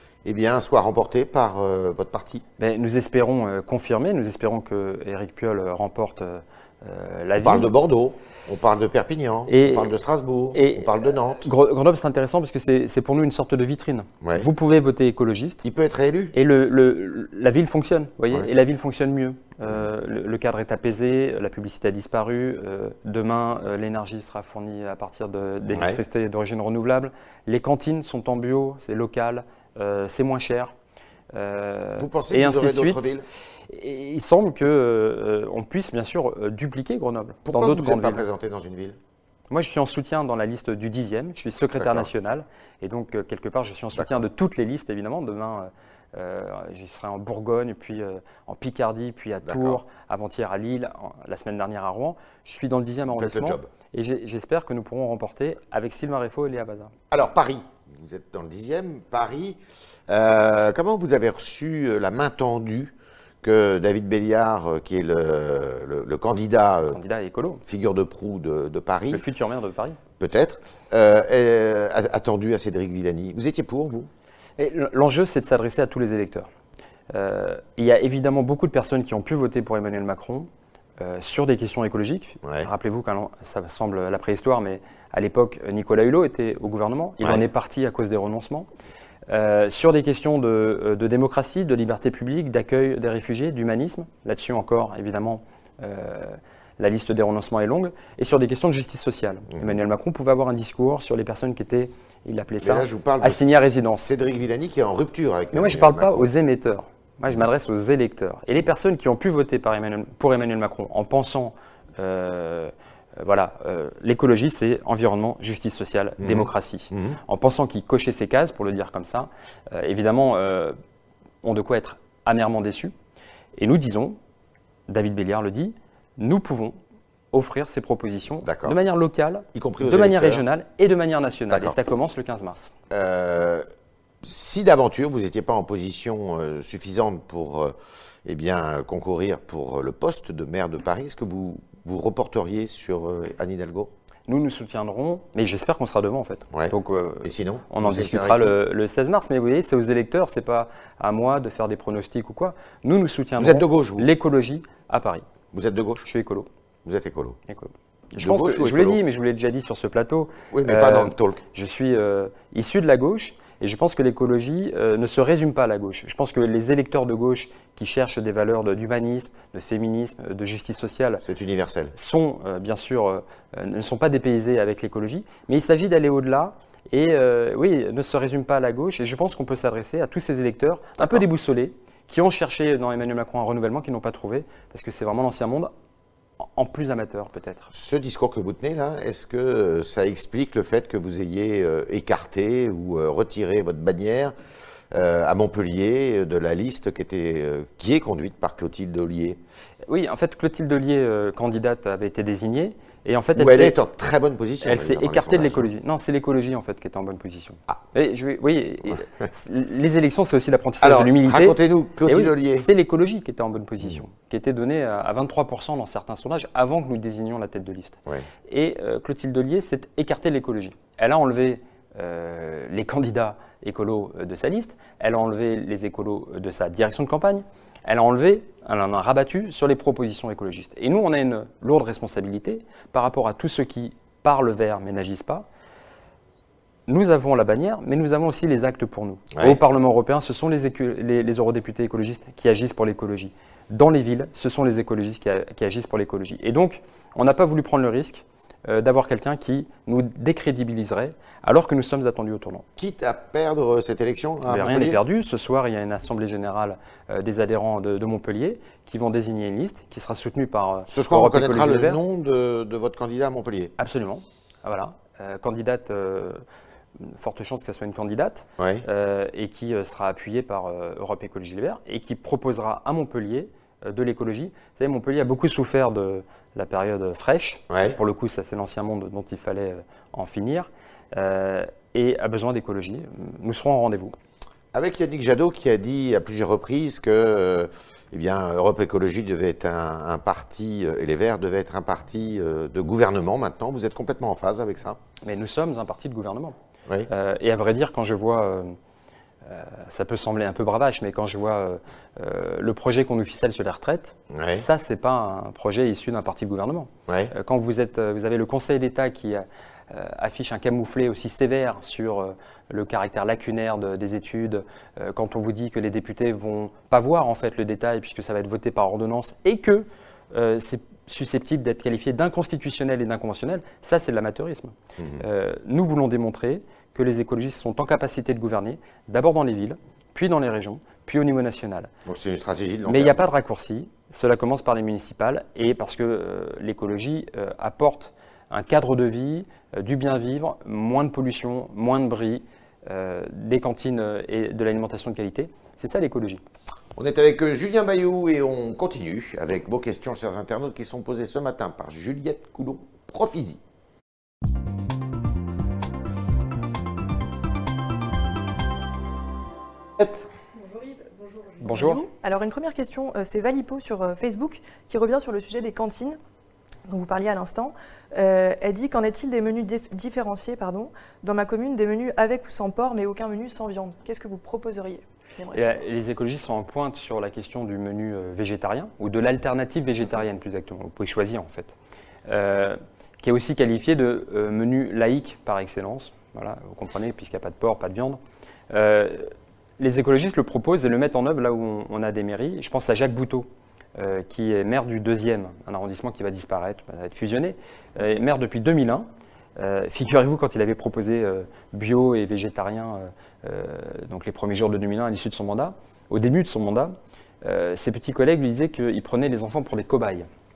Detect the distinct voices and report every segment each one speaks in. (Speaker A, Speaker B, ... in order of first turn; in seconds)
Speaker A: 0.2-2.4, 7.3-11.5, 14.2-14.5, 15.6-16.3, 25.7-26.0, 32.0-33.2, 37.4-39.0, 41.8-42.1, 49.4-49.8, 53.1-53.7, 57.1-59.6, 60.1-67.0, 67.6-69.2, 70.2-74.1, 82.4-82.7, 87.2-87.4, 102.6-106.3, 116.2-117.2, 128.4-128.8, 129.5-130.4, 131.5-131.8, 132.9-133.7, 134.2-137.7, 138.2-143.9, 146.5-148.6, 153.4-154.1, 155.5-156.1, 156.8-157.4, 158.2-159.0, 160.5-161.4, 171.2-171.9, 187.7-194.3, 194.9-199.4, 203.3-205.7, 210.8-212.7, 239.3-239.6, 252.8-255.0, 260.9-263.7, 268.6-268.8, 277.7-277.9, 284.7-295.0, 304.3-304.6, 325.0-325.2, 332.1-333.3, 346.9-353.6
Speaker B: 2.6-7.7, 9.5-10.0, 10.5-15.6, 16.3-30.7, 31.3-33.1, 33.7-38.2, 39.5-56.9, 66.9-67.6, 69.1-70.0, 74.6-76.5, 77.1-80.5, 81.0-88.7, 89.3-104.0, 105.5-120.8, 121.4-122.9, 123.6-124.2, 124.9-126.8, 127.3-132.7, 144.3-155.2, 156.0-156.5, 157.5-171.2, 171.9-185.7, 186.5-187.7, 199.9-203.8, 204.6-218.0, 218.5-235.4, 236.9-252.6, 254.4-262.0, 263.8-266.4, 267.0-284.1, 295.2-296.6, 297.1-298.7, 299.4-331.9, 332.8-346.4, 361.6-362.1, 375.5-381.7, 382.3-388.2, 388.7-410.3
Speaker C: 362.0-366.2, 366.9-375.8